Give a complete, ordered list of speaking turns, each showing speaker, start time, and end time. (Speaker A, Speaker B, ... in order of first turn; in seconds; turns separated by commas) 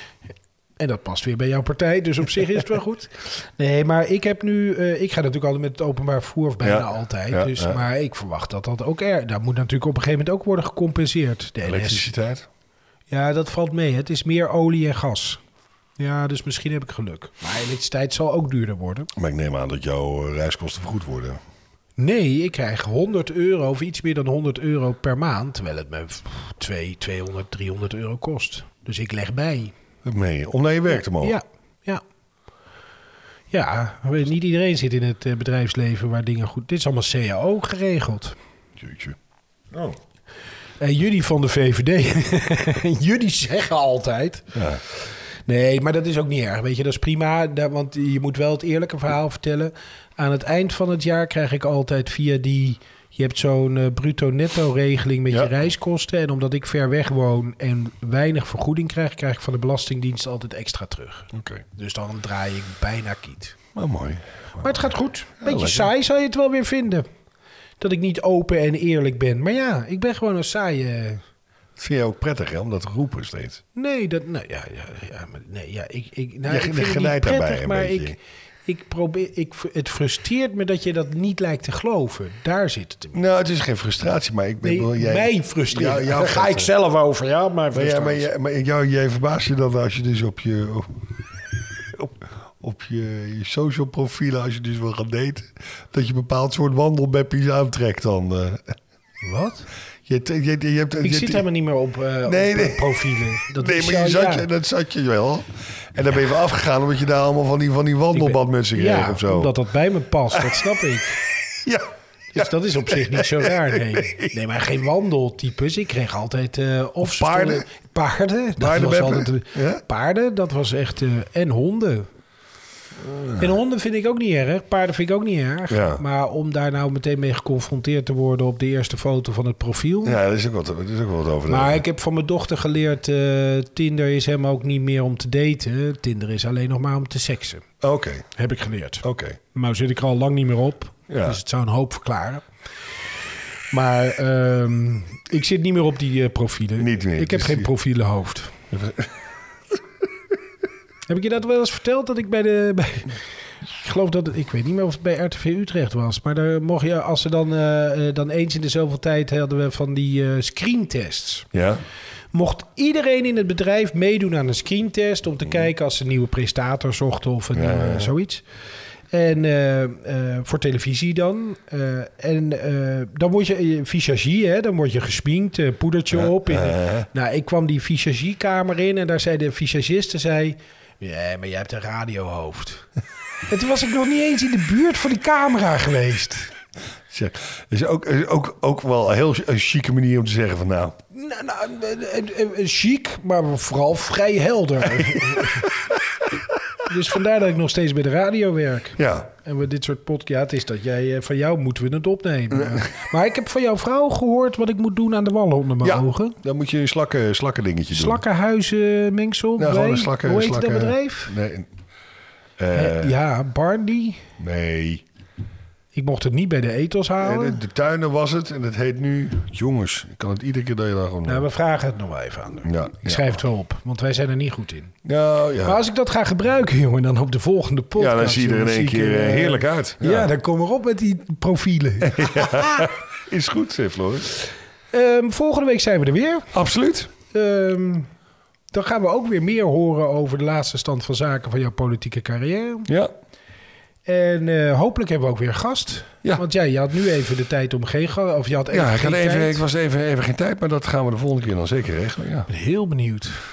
Speaker A: 0.8-12.1, Speaker B: 6.6-7.8, Speaker B: 11.6-12.5, Speaker A: 13.1-15.4, Speaker A: 16.0-19.1, Speaker B: 19.2-21.4, Speaker A: 22.0-29.7, Speaker B: 30.0-31.4, Speaker A: 31.2-32.0, Speaker A: 33.5-38.4, Speaker B: 38.8-39.1, Speaker A: 40.8-63.5, Speaker B: 44.5-44.8, Speaker B: 55.3-55.6, Speaker B: 61.3-61.6, Speaker B: 63.7-64.9, Speaker A: 64.6-67.0, Speaker B: 65.4-65.9, Speaker A: 67.8-71.2, Speaker B: 71.8-73.6, Speaker A: 73.7-83.3, Speaker B: 76.5-78.2, Speaker B: 83.1-86.7, Speaker A: 84.6-88.3, Speaker B: 87.7-90.9, Speaker B: 91.8-98.8, Speaker A: 99.2-99.7, Speaker B: 100.0-101.4, Speaker A: 101.0-104.5, Speaker B: 102.3-109.5, Speaker A: 108.1-111.2, Speaker B: 110.3-110.7, Speaker B: 111.5-111.8, Speaker A: 112.3-122.1, Speaker B: 112.3-114.3, Speaker B: 117.0-117.6, Speaker B: 118.6-119.8, Speaker B: 123.0-123.5, Speaker A: 123.4-130.2, Speaker B: 125.7-126.0, Speaker B: 130.0-131.8, Speaker A: 131.5-137.6, Speaker B: 137.8-138.3, Speaker A: 138.3-142.4, Speaker B: 139.0-139.4, Speaker B: 141.1-141.4, Speaker A: 143.7-148.5, Speaker B: 146.8-147.7, Speaker B: 148.7-149.1, Speaker A: 151.1-161.5, Speaker B: 161.5-161.8, Speaker A: 162.3-168.4, Speaker B: 167.5-168.1, Speaker A: 169.1-182.9, Speaker B: 176.1-177.1, Speaker A: 183.5-186.5, Speaker B: 187.1-190.9, Speaker A: 191.1-195.7, Speaker A: 196.8-206.4, Speaker B: 199.0-199.3, Speaker B: 202.6-202.8, Speaker B: 205.8-208.2, Speaker A: 207.9-211.3, Speaker B: 209.6-211.7, Speaker B: 212.6-213.1, Speaker A: 212.7-214.2, Speaker B: 214.4-215.0, Speaker A: 215.9-217.6, Speaker B: 217.2-221.5, Speaker A: 221.2-224.9, Speaker B: 222.6-223.4, Speaker B: 225.1-225.8, Speaker A: 225.6-232.9, Speaker B: 228.0-230.3, Speaker B: 232.0-234.3, Speaker A: 234.9-236.5, Speaker B: 236.5-237.1, Speaker A: 237.3-238.1, Speaker A: 238.7-242.9, Speaker B: 242.9-243.1, Speaker A: 244.1-249.6, Speaker B: 248.7-252.5, Speaker A: 252.5-253.4